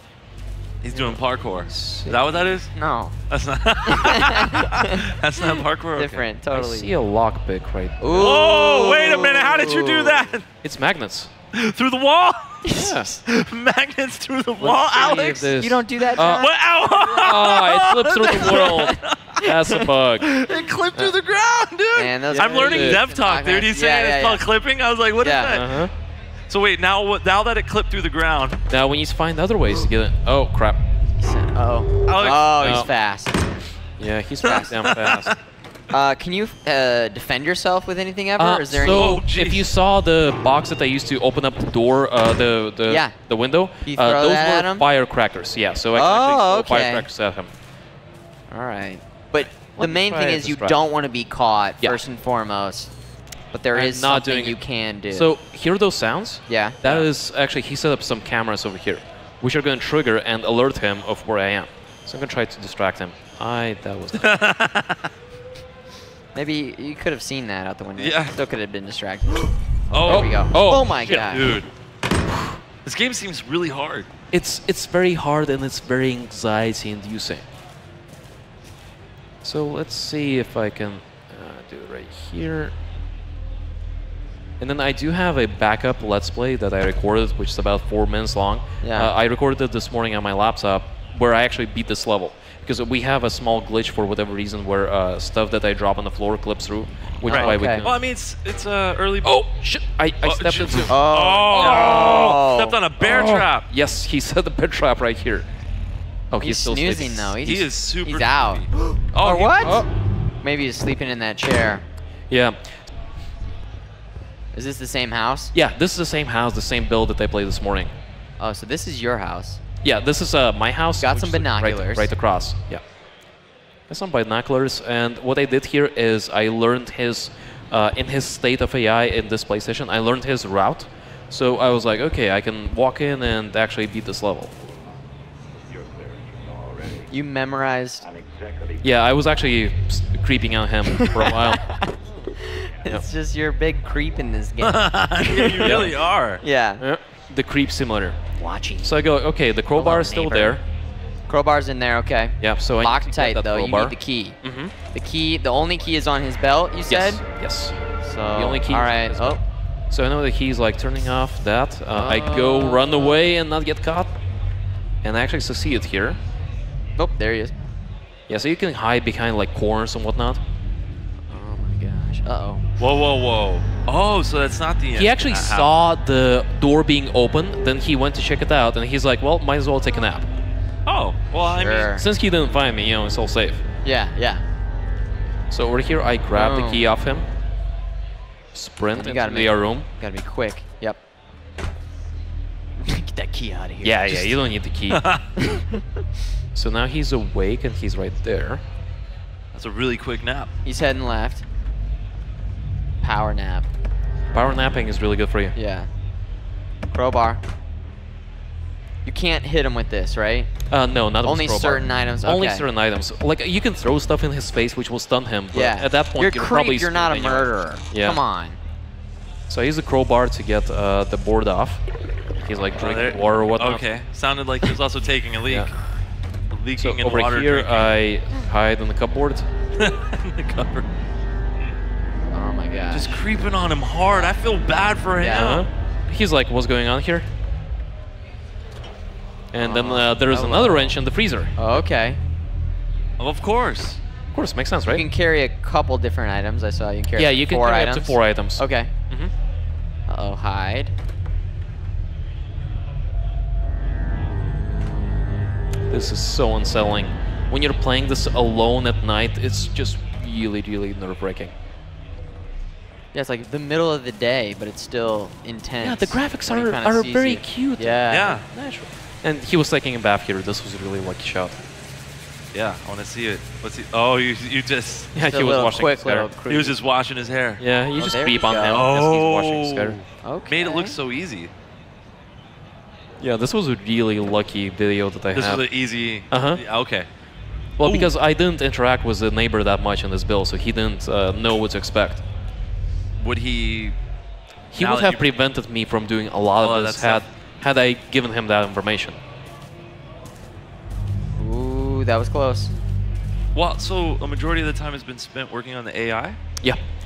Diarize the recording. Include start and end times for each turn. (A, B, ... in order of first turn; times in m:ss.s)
0:00.8-0:02.7 A
0:00.9-0:02.4 B
0:02.7-0:03.1 C
0:03.3-0:06.2 A
0:03.9-0:05.0 C
0:05.9-0:07.0 C
0:06.5-0:08.4 B
0:08.0-0:10.4 C
0:08.1-0:10.4 A
0:10.6-0:11.3 B
0:11.5-0:12.6 A
0:12.6-0:13.2 C
0:12.8-0:13.1 B
0:13.2-0:15.5 A
0:14.6-0:16.5 B
0:15.0-0:17.4 C
0:16.1-0:19.4 A
0:17.2-0:20.3 B
0:18.3-0:19.0 C
0:20.2-0:25.7 A
0:21.9-0:24.4 C
0:22.3-0:23.0 B
0:25.2-0:25.6 C
0:25.4-0:25.9 B
0:26.5-0:28.6 A
0:28.7-0:30.8 B
0:31.2-0:33.5 C
0:32.1-0:32.9 A
0:32.6-0:32.9 B
0:34.0-0:35.3 B
0:34.4-0:34.7 C
0:34.5-0:35.4 A
0:35.9-0:39.2 C
0:38.4-0:47.5 B
0:38.8-0:39.7 A
0:42.9-0:43.1 C
0:43.8-0:44.8 C
0:45.9-0:47.1 C
0:48.5-0:52.9 C
0:49.5-0:50.8 B
0:53.5-0:55.3 C
0:53.7-0:54.6 B
0:55.1-1:04.4 B
0:56.5-0:56.8 C
1:04.1-1:05.1 A
1:06.3-1:11.6 C
1:08.0-1:08.4 A
1:09.9-1:11.7 A
1:10.0-1:11.6 B
1:12.8-1:14.1 A
1:14.3-1:17.4 B
1:19.4-1:22.7 B
1:24.6-1:38.0 B
1:28.8-1:29.1 C
1:37.2-1:37.8 C
1:37.2-1:39.4 A
1:39.2-1:40.9 B
1:40.2-1:43.7 A
1:40.9-1:42.8 C
1:41.5-1:42.4 B
1:43.0-1:45.4 B
1:46.3-1:47.5 B
1:46.4-1:49.8 C
1:47.4-1:49.8 A
1:49.6-1:49.9 B
1:50.4-1:51.8 C
1:52.3-1:52.6 B
1:54.5-1:55.5 C
1:55.5-1:57.9 B
1:58.4-1:59.6 C
1:59.8-2:02.8 B
2:01.0-2:02.1 C
2:03.9-2:14.5 B
2:17.1-2:18.0 C
2:18.8-2:21.7 B
2:20.9-2:21.7 C
2:22.4-2:26.8 C
2:24.6-2:26.4 A
2:25.6-2:25.9 B
2:26.8-2:28.2 B
2:28.4-2:29.0 C
2:28.8-2:30.6 B
2:29.7-2:30.6 C
2:31.3-2:34.4 C
2:32.4-2:34.7 B
2:34.9-2:37.2 C
2:36.9-2:37.8 B
2:38.0-2:39.4 C
2:38.3-2:39.4 B
2:39.9-2:44.1 B
2:41.9-2:43.4 C
2:45.0-2:46.2 B
2:47.0-2:47.5 C
2:48.3-2:50.4 B
2:51.3-2:52.6 C
2:52.8-2:55.7 A
2:54.9-3:00.3 B
3:00.8-3:01.9 A
3:01.4-3:02.0 C
3:01.9-3:03.6 B
3:03.8-3:04.4 C
3:05.5-3:07.2 B
3:06.3-3:06.8 C
3:08.5-3:09.9 B
3:08.9-3:11.0 C
3:12.8-3:14.4 C
3:13.8-3:15.0 B
3:14.9-3:15.2 A
3:15.4-3:15.8 C
3:16.5-3:18.6 B
3:19.5-3:20.5 A
3:20.6-3:21.4 C
3:23.0-3:23.7 C
3:24.3-3:25.5 B
3:25.6-3:25.9 C
3:26.9-3:27.4 C
3:29.0-3:30.5 C
3:30.7-3:38.2 B
3:31.2-3:32.7 C
3:35.5-3:38.6 C
3:39.5-3:41.8 B
3:42.4-3:43.8 B
3:42.8-3:45.7 A
3:46.5-3:47.9 A
3:46.8-3:49.5 B
3:49.8-3:50.9 A
3:52.3-3:53.1 C
3:52.9-3:55.6 A
3:55.2-3:55.6 C
3:55.3-3:57.2 B
3:59.5-4:01.5 B
3:59.6-4:00.9 C
4:01.6-4:02.2 C
4:03.2-4:04.0 A
4:04.3-4:05.0 B
4:04.9-4:08.9 C
4:07.2-4:09.3 B
4:10.1-4:10.9 C
4:15.9-4:21.5 B
4:23.1-4:28.4 C
4:25.8-4:31.6 B
4:28.1-4:28.4 A
4:32.5-4:35.1 A
4:35.1-4:36.3 B
4:35.2-4:36.8 C
4:36.4-4:37.6 A
4:37.6-4:40.0 B
4:38.0-4:38.9 C
4:38.7-4:41.5 A
4:40.2-4:41.0 C
4:43.2-4:45.6 B
4:45.3-4:47.1 A
4:46.3-4:46.6 B
4:47.8-4:52.2 B
4:47.8-4:48.1 A
4:53.2-4:54.0 A
4:54.7-4:59.2 B
4:54.7-4:55.2 A
4:56.6-4:57.2 A
5:01.3-5:02.7 C
5:03.5-5:06.4 A